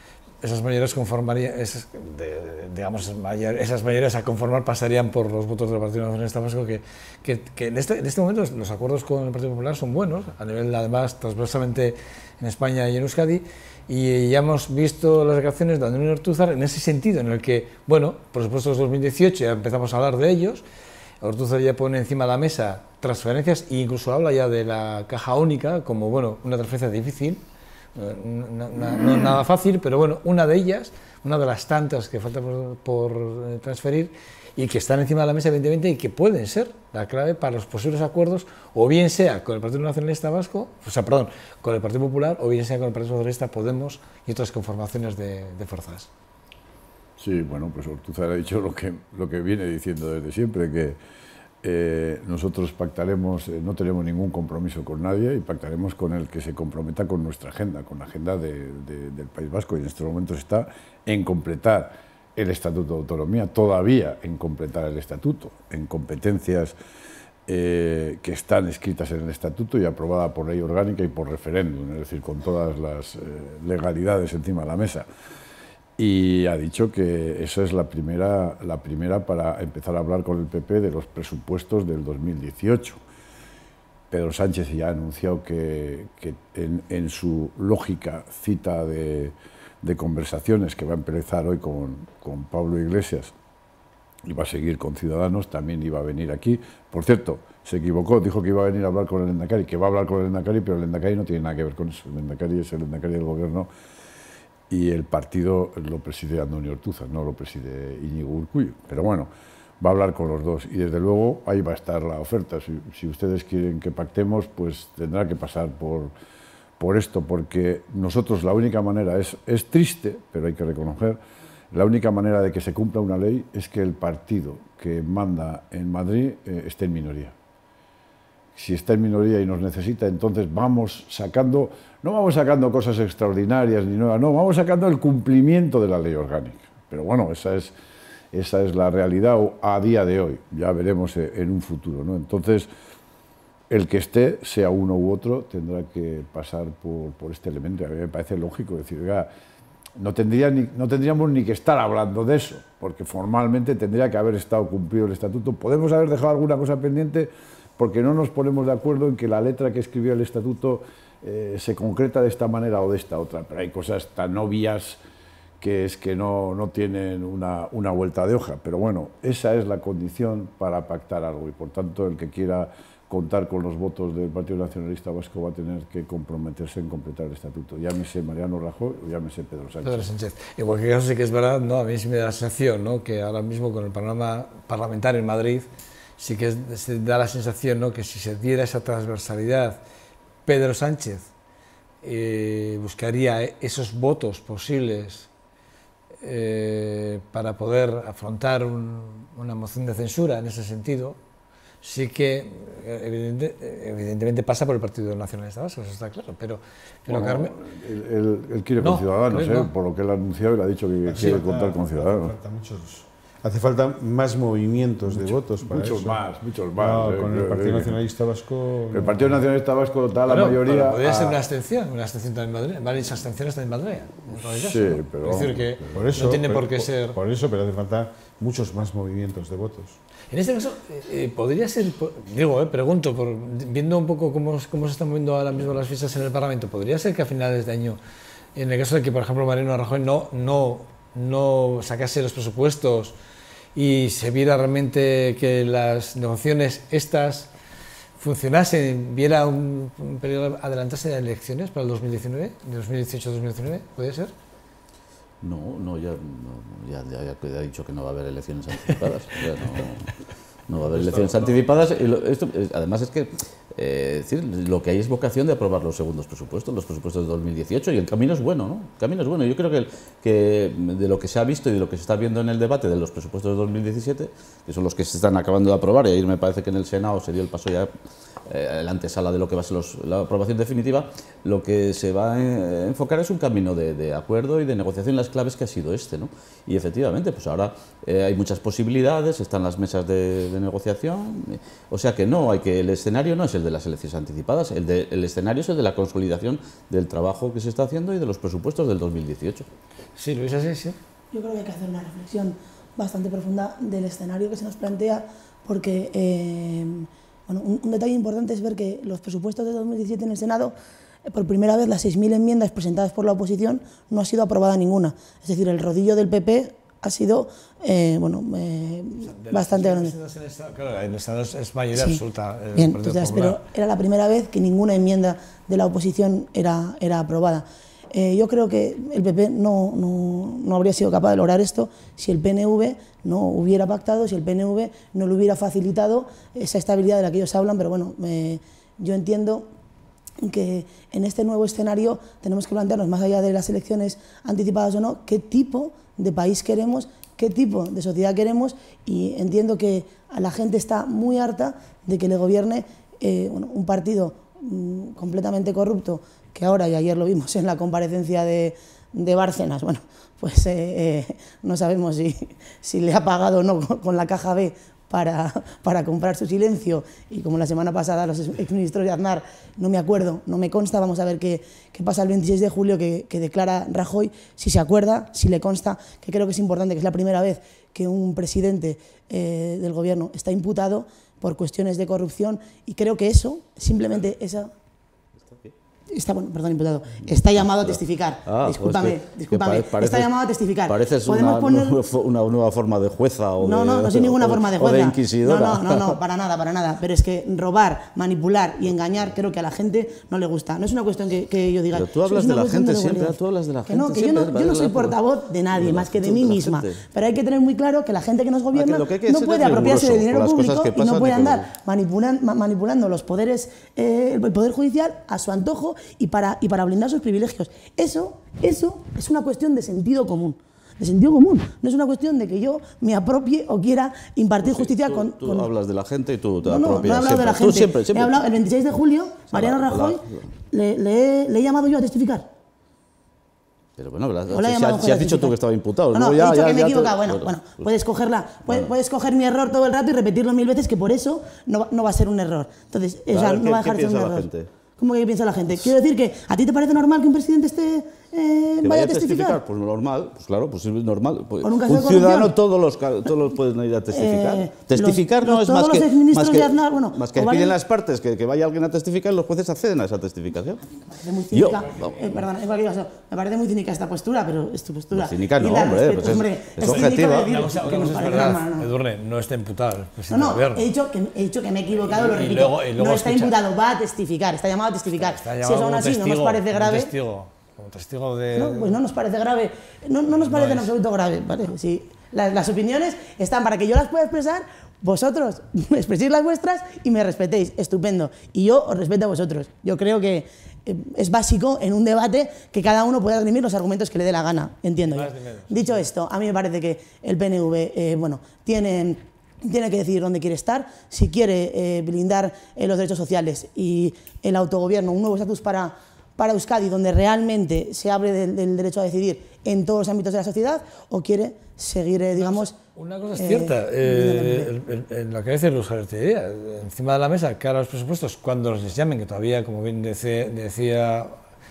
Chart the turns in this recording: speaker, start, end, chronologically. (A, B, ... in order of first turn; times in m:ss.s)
0:00.4-0:20.6 A
0:21.2-0:27.4 A
0:28.0-0:46.1 A
0:47.2-0:51.0 B
0:51.6-1:06.7 B
1:07.5-1:15.0 B
1:16.0-1:23.0 B
1:24.1-1:33.3 B
1:34.2-1:43.7 B
1:44.7-1:49.3 B
1:49.8-1:56.1 B
1:56.8-2:01.2 B
2:01.7-2:07.3 B
2:08.5-2:17.7 B
2:18.3-2:22.7 B
2:23.7-2:29.3 B
2:30.0-2:45.0 B
2:45.6-3:00.1 B
2:59.8-3:09.8 A
3:10.4-3:11.3 A
3:12.0-3:15.3 A
3:16.2-3:21.2 A
3:21.8-3:27.5 A
3:27.1-3:32.3 B
3:28.8-3:29.7 A
3:31.0-3:36.2 C
3:35.0-3:38.0 B
3:36.8-3:39.4 C
3:38.9-3:41.4 B
3:40.3-3:47.2 A
3:44.3-3:46.1 B
3:45.9-3:50.0 C
3:50.3-3:58.0 A
3:58.5-4:03.1 A
4:03.7-4:07.5 A
4:08.2-4:14.3 A
4:15.4-4:20.1 D
4:20.7-4:37.9 D
4:20.9-4:21.5 B
4:38.5-4:59.6 D
5:00.2-5:01.0 A
5:01.3-5:20.1 E
5:19.2-5:23.6 A
5:21.9-5:22.2 E
5:22.7-5:39.7 E
5:40.4-6:24.7 E
6:25.4-6:25.7 D
6:26.1-6:32.0 E
6:27.2-6:30.3 D
6:30.9-6:36.2 D
6:33.6-7:05.7 E
6:41.9-6:45.2 D
6:45.7-6:47.0 D
6:48.7-6:51.7 D
7:04.6-7:08.4 D
7:06.6-7:12.5 E
7:09.5-7:10.5 D
7:14.0-7:17.9 D
7:14.5-7:15.5 E
7:16.1-7:29.6 E
7:23.3-7:24.7 D
7:28.8-7:40.9 D
7:31.6-7:32.5 E
7:34.1-7:37.7 E
7:41.1-7:48.9 E
7:41.5-7:42.4 D
7:45.1-7:47.5 D
7:46.8-7:50.9 A
7:50.3-7:57.1 E
7:52.1-7:53.5 A
7:55.2-7:59.0 A
7:58.5-8:32.8 E
8:00.3-8:00.9 A
8:15.1-8:16.0 A
8:32.3-8:41.3 A
8:33.3-8:34.7 E